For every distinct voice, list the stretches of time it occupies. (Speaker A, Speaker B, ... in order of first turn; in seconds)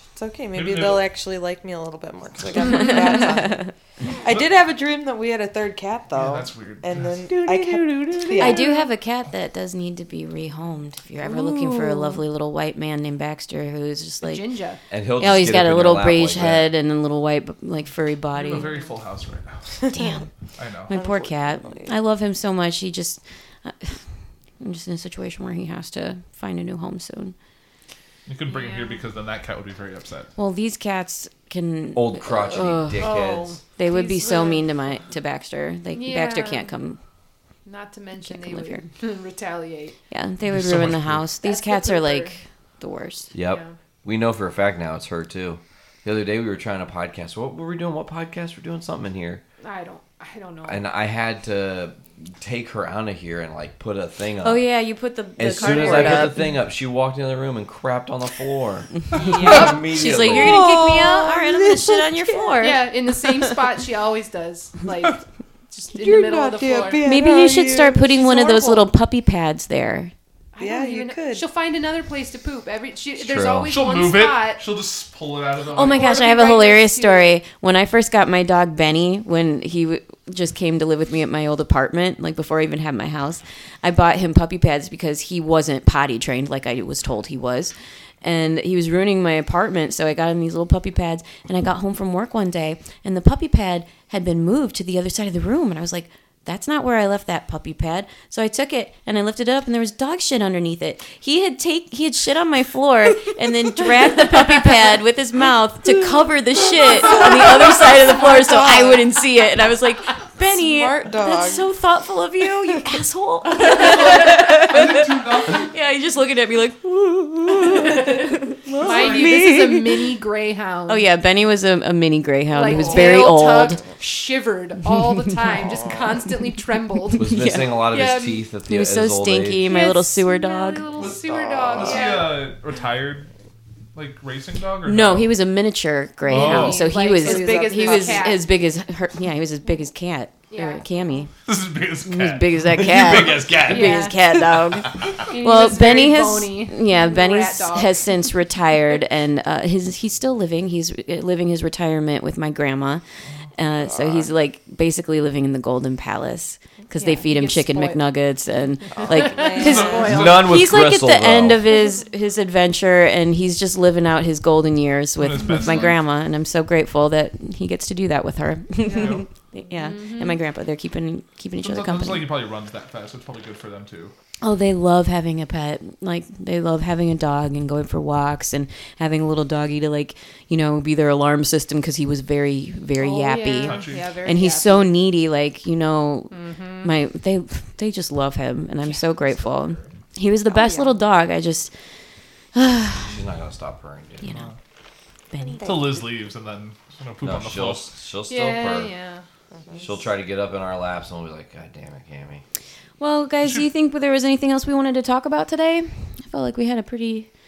Speaker A: 0.1-8.7, 11.2-12.2, 20.9-21.9, 60.2-62.6, 65.9-68.8, 70.6-71.4, 107.1-109.0, 110.4-111.7, 118.9-120.0, 130.8-132.2, 159.1-160.1, 195.4-196.0
Speaker B: 0.5-1.1, 6.1-7.2, 18.3-19.6, 20.6-20.9, 28.2-30.3, 40.5-41.2, 73.7-76.1, 113.8-115.7, 118.9-119.3, 122.7-123.3, 131.7-133.3, 133.9-135.3, 136.3-136.9, 141.4-145.2, 159.6-160.4, 165.2-165.9, 168.9-169.2, 171.6-174.1, 183.6-184.2, 194.3-194.6, 195.6-197.9
Speaker C: 2.7-3.7, 8.3-14.4, 15.2-18.7, 19.9-20.3, 20.9-24.0, 24.6-27.3, 30.4-33.1, 33.8-37.0, 38.2-38.9, 40.1-43.3, 54.4-56.4, 59.1-62.9, 67.0-70.1, 75.7-119.3, 120.9-123.8, 127.2-127.8, 128.7-130.9, 134.8-141.3, 142.0-153.0, 153.5-172.3, 174.4-191.7, 192.5-193.1, 194.2-194.5, 195.3-195.8, 203.0-207.3
Speaker D: 8.4-8.8, 14.2-14.8, 28.5-29.0, 33.0-34.7, 35.9-36.8, 37.6-40.0, 41.4-42.4, 43.4-43.7, 49.6-50.8, 55.5-56.3, 59.2-60.0, 62.6-67.1, 70.5-74.6, 75.7-77.4, 118.8-121.1, 122.5-127.3, 127.8-128.4, 129.6-132.4, 136.2-138.5, 140.5-140.9, 143.6-144.2, 145.2-148.1, 156.9-158.0, 159.0-160.5, 168.8-170.4, 182.9-184.9, 186.3-186.9, 188.8-189.6, 190.5-191.0, 198.3-199.2
Speaker E: 14.9-16.7, 31.9-33.6, 43.3-49.4, 50.6-54.7, 55.4-60.6, 73.2-73.7, 127.2-129.7, 142.8-143.7, 160.0-161.6, 193.0-194.4, 197.2-199.0, 199.8-202.4